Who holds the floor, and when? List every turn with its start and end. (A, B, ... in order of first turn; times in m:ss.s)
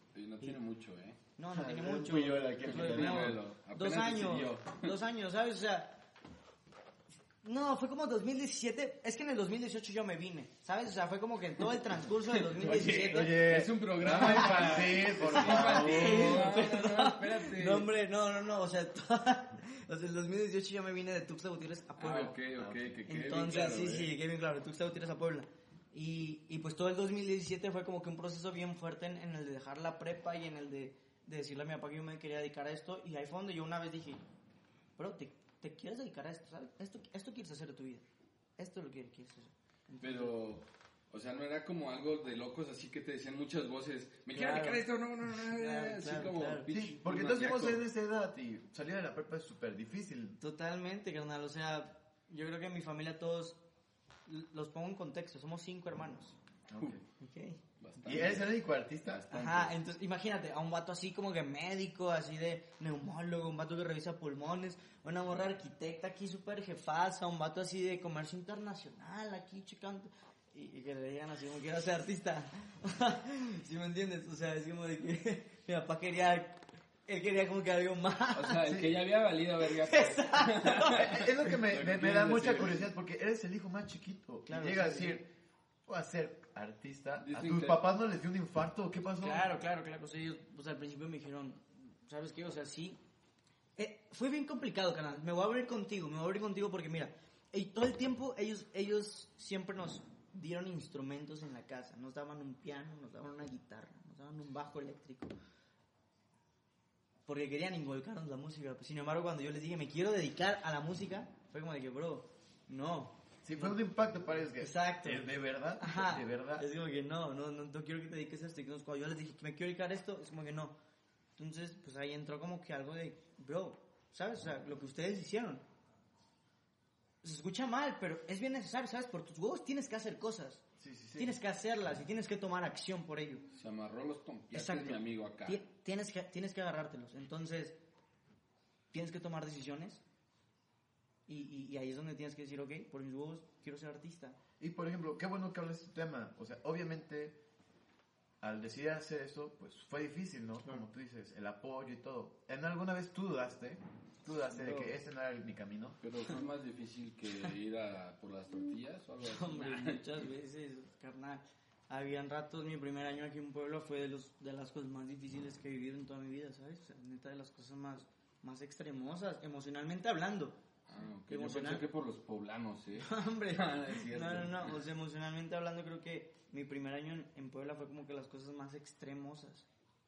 0:00.1-0:01.2 A
0:01.4-0:06.0 B
0:01.5-0:03.4 C
0:02.6-0:04.9 A
0:07.4-0:13.4 B
0:12.3-0:17.9 A
0:12.6-0:16.5 C
0:14.1-0:22.4 B
0:22.0-0:24.1 A
0:22.6-0:22.9 C
0:23.0-0:34.2 B
0:35.0-0:38.0 B
0:38.6-0:40.3 B
0:40.0-0:47.8 A
0:44.3-0:46.7 B
0:46.7-0:50.4 C
0:50.4-0:53.6 B
0:54.2-0:56.4 B
0:56.7-0:57.0 C
0:57.2-0:57.6 B
0:57.8-0:58.5 A
0:58.0-0:59.2 C
0:59.0-0:59.7 A
0:59.3-1:18.6 B
1:18.3-1:22.8 A
1:18.6-1:18.9 C
1:19.8-1:21.1 B
1:20.9-1:25.3 C
1:24.4-1:25.2 B
1:25.8-1:29.5 C
1:27.2-1:27.8 A
1:29.2-1:33.0 B
1:33.8-1:45.3 B
1:47.2-1:53.8 B
1:53.4-1:56.6 C
1:54.6-2:00.8 B
2:01.4-2:05.6 B
2:07.2-2:10.6 B
2:10.8-2:11.4 C
2:11.2-2:13.4 B
2:13.5-2:15.6 A
2:14.5-2:17.8 B
2:18.9-2:20.0 B
2:21.3-2:24.4 B
2:24.6-2:27.4 C
2:28.4-2:36.0 C
2:34.5-2:35.0 B
2:36.0-2:40.0 A
2:39.2-2:50.6 B
2:50.9-2:54.8 A
2:51.3-2:51.8 B
2:53.0-2:59.7 B